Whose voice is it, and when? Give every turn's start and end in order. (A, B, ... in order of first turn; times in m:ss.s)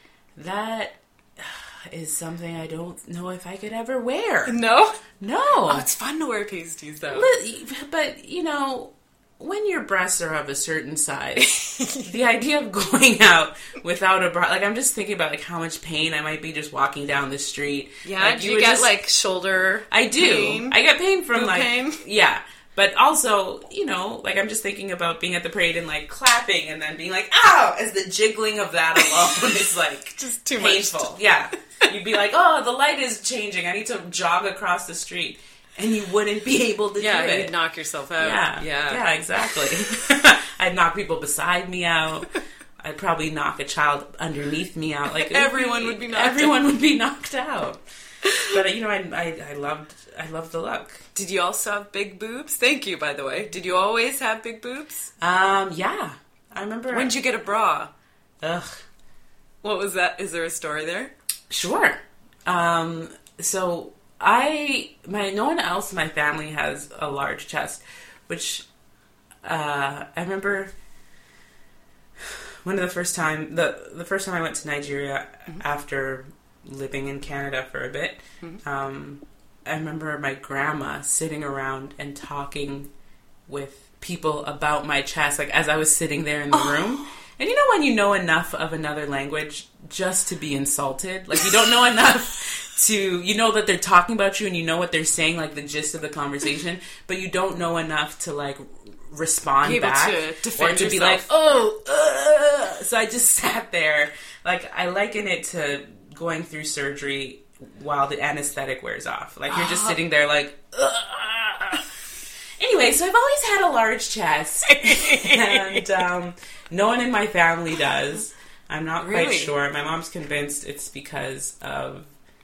0:00.4-0:04.6 A
0:04.5-0:05.0 B
0:05.2-0:05.9 A
0:05.6-0:07.3 B
0:07.1-0:19.0 A
0:11.4-0:12.1 B
0:18.0-0:20.8 B
0:19.9-0:37.5 A
0:21.3-0:22.0 B
0:30.2-0:31.2 B
0:37.0-0:39.0 B
0:38.2-0:42.3 A
0:42.8-0:47.8 A
0:45.2-0:46.6 B
0:48.2-0:48.5 B
0:48.4-0:51.0 A
0:51.2-0:55.1 B
0:55.2-0:57.1 A
0:56.9-0:57.9 B
0:58.4-0:58.8 A
0:59.6-1:01.1 B
1:01.5-1:08.6 A
1:09.4-1:10.7 A
1:12.2-1:22.9 A
1:23.5-1:51.9 A
1:26.5-1:27.0 B
1:39.6-1:41.3 B
1:49.5-1:50.0 B
1:52.6-2:02.1 A
1:54.7-1:55.9 B
1:59.0-1:59.5 B